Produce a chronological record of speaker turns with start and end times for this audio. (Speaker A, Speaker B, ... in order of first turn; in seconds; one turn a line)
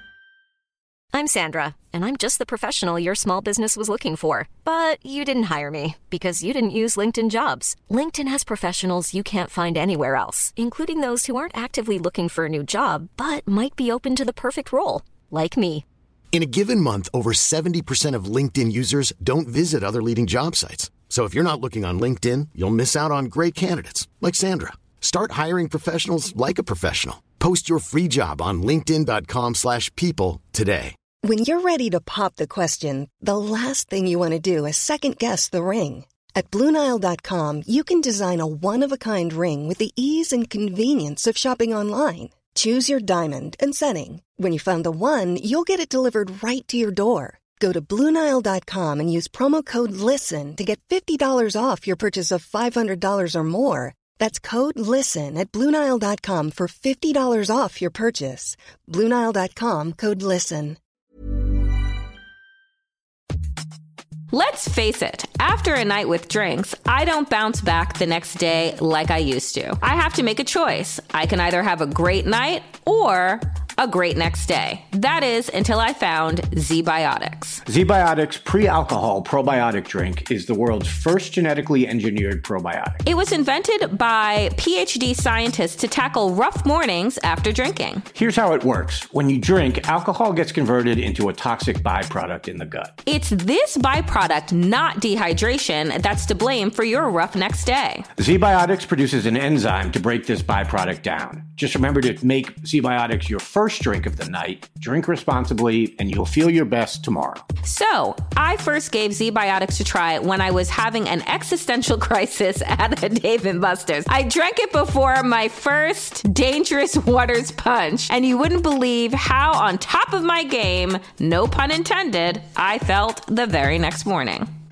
Speaker A: 1.1-15.8
Speaker B: 16.3-30.9
Speaker C: 31.2-60.8
Speaker D: 64.3-77.6
Speaker E: 77.7-83.0
Speaker D: 83.0-88.0
Speaker E: 88.1-93.0
Speaker D: 93.0-98.0
Speaker E: 98.2-107.5
Speaker D: 107.6-124.5